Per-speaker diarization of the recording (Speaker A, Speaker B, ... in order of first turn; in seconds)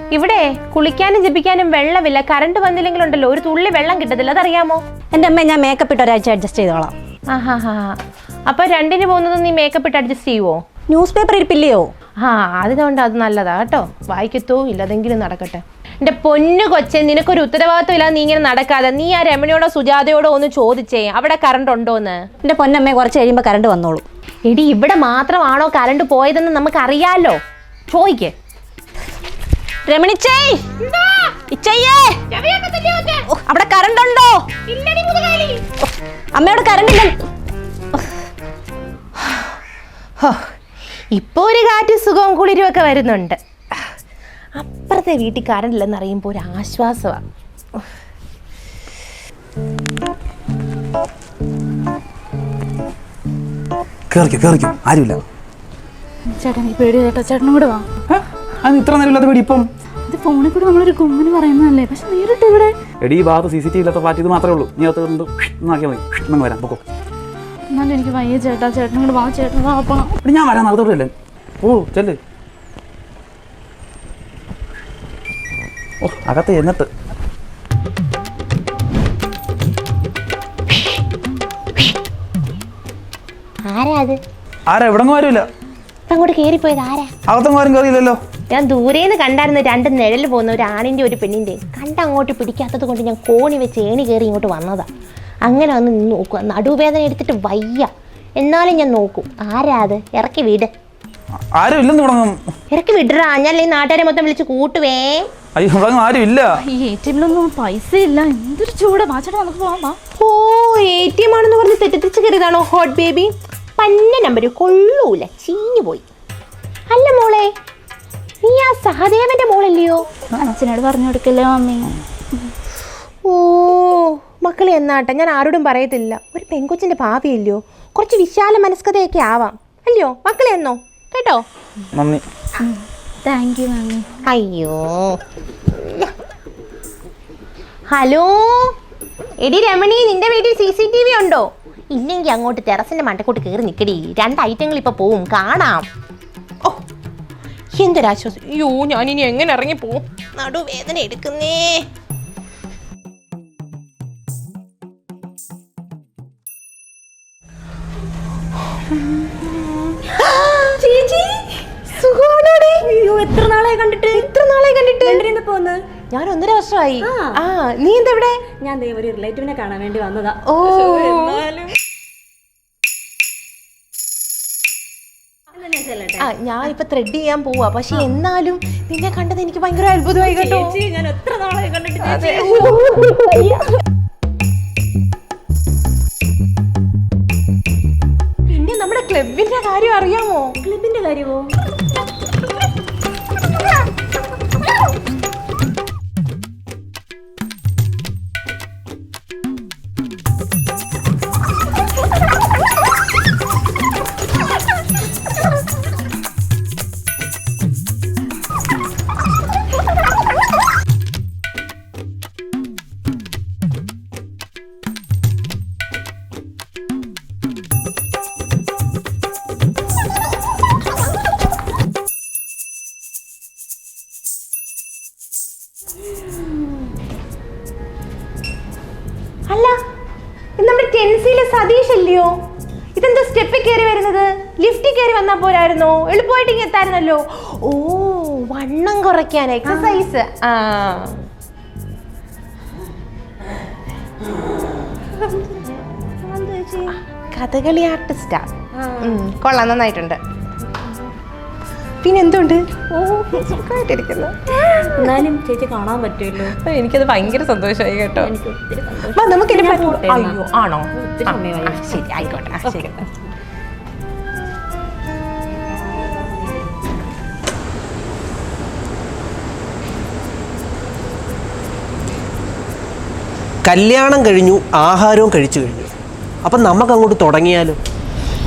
Speaker A: 0.1-4.8, 7.3-10.6, 12.2-22.2, 24.5-27.4, 27.9-28.3, 32.3-33.2, 34.7-35.6, 40.2-40.5, 41.1-43.8, 44.5-47.2, 83.7-84.2, 86.1-87.1, 88.5-94.8, 95.5-100.7, 102.7-105.2, 110.2-116.0, 116.9-117.5, 118.4-120.0, 123.2-131.4, 134.2-135.2, 137.9-138.7, 139.4-145.8, 147.8-151.8, 159.0-159.4, 160.0-160.8, 161.9-162.8, 164.1-165.2, 166.1-168.4, 170.5-171.4, 176.2-180.8, 182.0-182.8, 188.5-190.6, 229.5-229.7, 230.6-232.3, 232.9-241.2, 247.3-248.5, 249.0-250.2, 252.0-252.6, 253.3-255.1, 256.6-258.3, 259.1-263.0
Speaker B: 5.1-6.9, 10.9-11.9, 22.4-24.0, 29.9-30.6, 31.5-32.1, 33.3-34.5, 36.3-37.1, 160.8-161.4, 162.8-164.3, 165.0-165.8, 167.0-167.3, 168.6-171.4, 175.6-176.2, 180.3-183.6, 190.6-191.5, 239.7-240.0, 245.7-246.9, 248.8-249.2, 252.9-253.6, 254.9-256.6, 258.2-260.4, 261.0-263.0
Speaker C: 54.1-55.2, 58.1-59.6, 63.0-66.8, 70.2-72.2, 76.0-76.8, 84.7-85.4, 87.3-88.2, 101.6-102.3, 105.5-106.4, 131.9-132.2
Speaker D: 56.4-57.9, 60.1-62.7, 67.7-70.1, 106.6-110.0, 120.4-121.9, 132.6-134.1
Speaker E: 273.6-275.9, 276.4-277.8